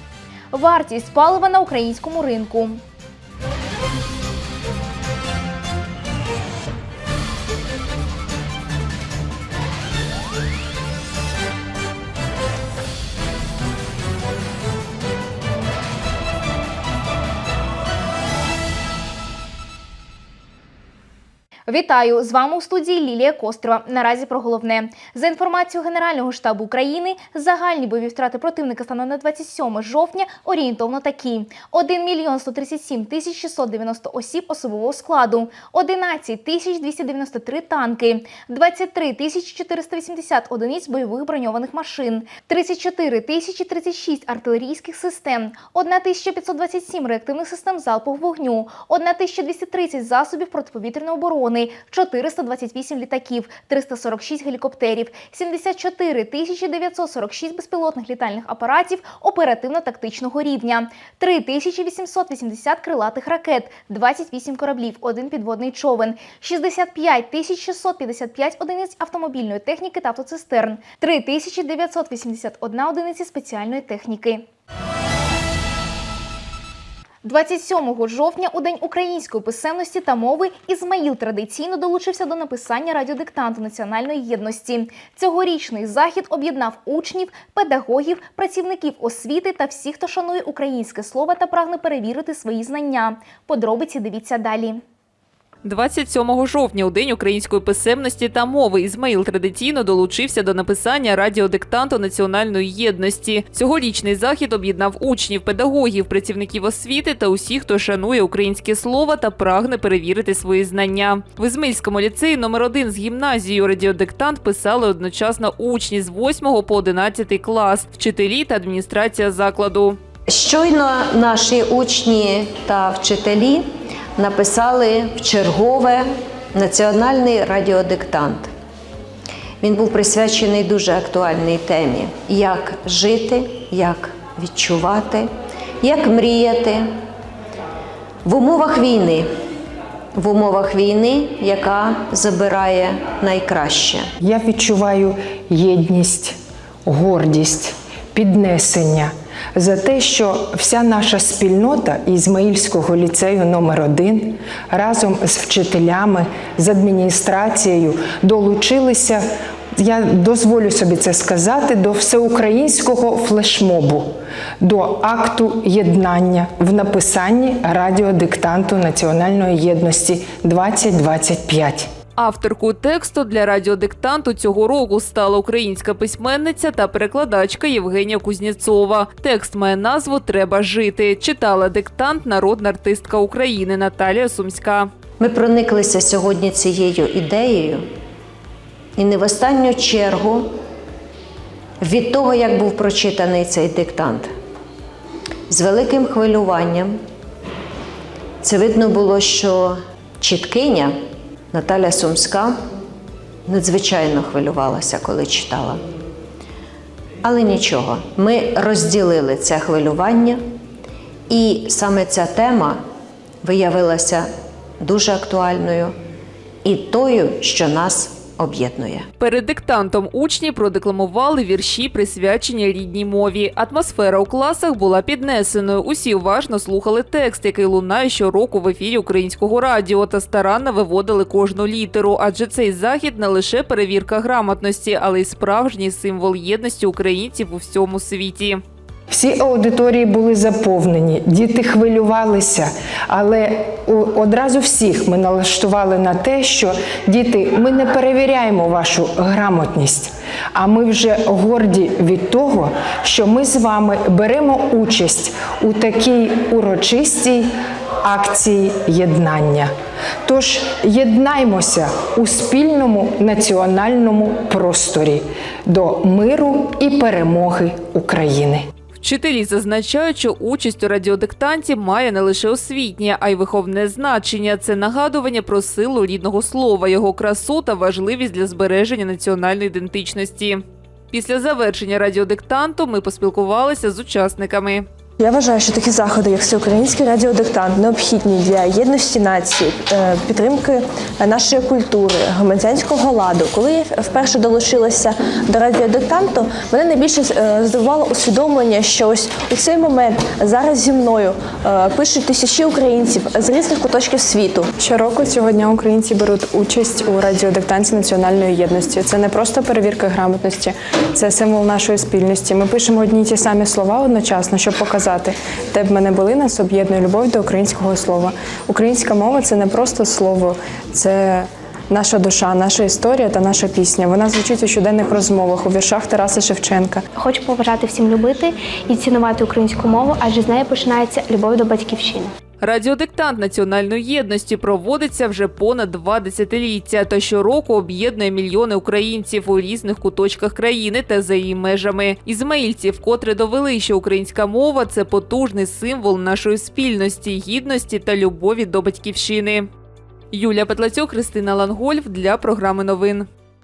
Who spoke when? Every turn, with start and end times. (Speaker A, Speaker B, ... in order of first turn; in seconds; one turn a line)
Speaker A: 0.5-2.8
Speaker A: 21.7-74.5
Speaker A: 77.2-94.8
Speaker B: 95.6-120.0
Speaker C: 120.3-128.5
Speaker C: 129.6-135.3
Speaker C: 135.8-136.9
Speaker C: 138.2-139.3
Speaker C: 140.2-144.1
Speaker D: 144.2-146.3
Speaker D: 146.9-159.2
Speaker D: 159.8-164.1
Speaker D: 164.6-171.9
Speaker B: 172.2-184.9
Speaker C: 185.2-187.9
Speaker C: 189.0-190.5
Speaker C: 191.8-194.3
Speaker C: 195.5-197.0
Speaker C: 198.4-201.0
Speaker C: 201.5-202.6
Speaker C: 203.5-205.8
Speaker C: 207.2-210.4
Speaker C: 211.3-212.8
Speaker C: 213.4-214.3
Speaker C: 214.8-215.9
Speaker C: 216.6-219.1
Speaker B: 219.2-238.6
Speaker D: 239.1-257.5
Speaker D: 258.0-259.7
Speaker D: 260.3-268.7
Speaker B: 269.0-284.9
Speaker E: 285.2-304.7
Speaker F: 304.8-327.0
Speaker G: 327.1-332.3
Speaker B: 332.6-349.7
Speaker B: 350.3-353.3